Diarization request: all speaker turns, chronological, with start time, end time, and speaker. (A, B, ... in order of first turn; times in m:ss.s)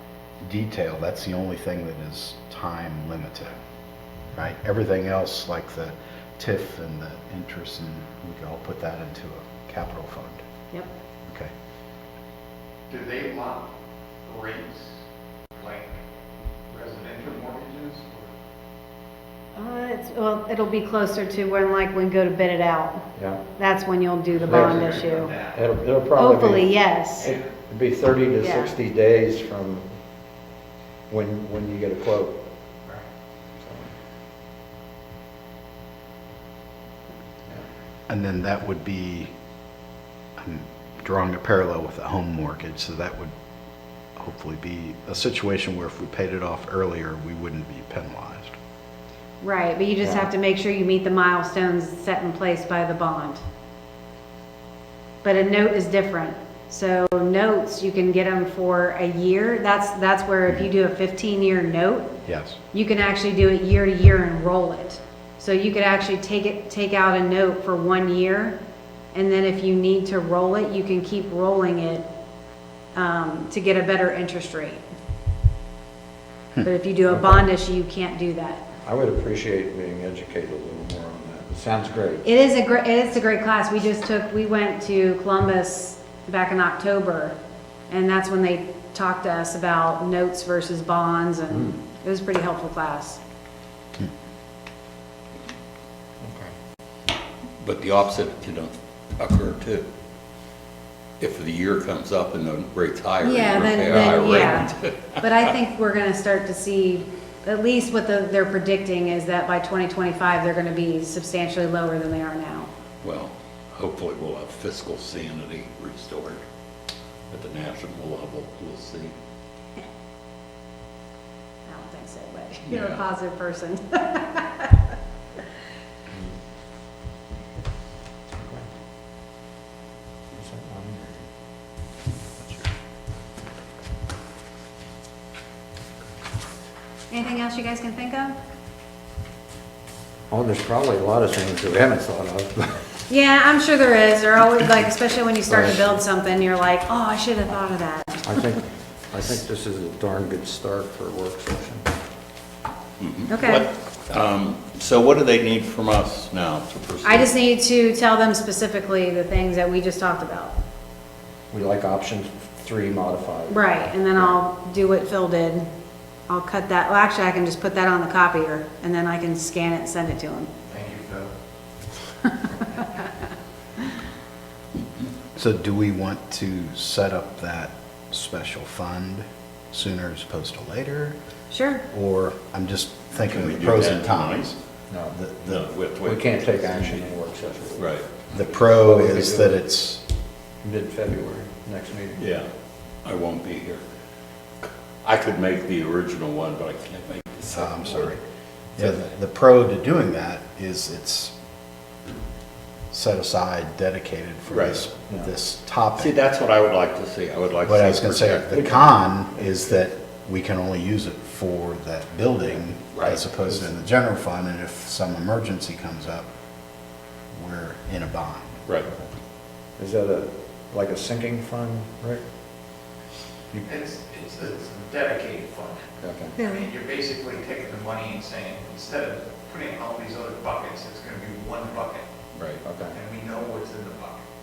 0:00.4-0:03.5 A
0:04.3-0:10.4 A
0:12.9-0:13.7 B
0:14.2-0:15.0 B
0:15.6-0:16.0 B
0:16.7-0:18.3 B
0:19.6-0:23.0 C
0:23.2-0:23.4 D
0:23.6-0:25.3 C
0:24.4-0:29.9 D
0:24.4-0:25.6 B
0:26.2-0:27.3 C
0:28.4-0:28.7 C
0:31.1-0:32.4 D
0:33.6-0:33.9 D
0:38.1-0:39.3 A
0:40.4-0:43.3 A
0:44.2-0:48.6 A
0:49.4-0:53.4 C
0:55.2-1:02.1 C
1:02.2-1:02.6 A
1:02.7-1:08.6 C
1:09.1-1:12.0 C
1:12.9-1:14.8 C
1:16.6-1:18.6 C
1:17.1-1:17.4 D
1:18.8-1:22.2 D
1:22.2-1:27.3 C
1:27.9-1:33.2 C
1:31.5-1:31.8 D
1:36.2-1:36.5 D
1:37.6-1:39.8 E
1:41.2-1:45.4 E
1:43.2-1:52.7 C
1:53.0-1:56.4 E
1:57.3-1:59.1 E
2:01.7-2:04.9 C
2:02.7-2:03.0 E
2:08.3-2:08.7 D
2:10.3-2:11.3 D
2:17.1-2:18.3 C
2:20.3-2:22.8 D
2:23.1-2:28.4 C
2:25.5-2:26.0 D
2:28.2-2:31.9 D
2:33.0-2:37.3 E
2:33.3-2:33.6 C
2:37.0-2:40.5 C
2:41.5-2:43.6 D
2:43.5-2:45.7 C
2:46.3-2:50.5 C
2:50.7-2:51.3 B
2:55.3-3:01.2 A
3:01.5-3:01.8 C
3:01.9-3:04.6 A
3:03.2-3:04.5 E
3:04.9-3:05.2 D
3:05.1-3:05.7 A
3:05.4-3:07.1 E
3:06.0-3:09.6 D
3:07.8-3:08.0 E
3:08.3-3:10.0 A
3:10.6-3:12.2 D
3:12.2-3:12.5 E
3:13.0-3:13.8 E
3:14.6-3:18.1 E
3:17.5-3:18.2 A
3:18.8-3:19.0 E
3:18.8-3:21.3 A
3:22.9-3:26.1 A
3:24.5-3:24.9 E
3:26.0-3:28.9 E
3:27.6-3:36.3 A
3:37.3-3:38.6 A
3:39.8-3:42.2 D
3:43.6-3:52.0 B
3:46.0-3:46.4 D
3:52.3-3:52.6 E
3:52.6-3:53.0 D
3:52.9-3:54.2 B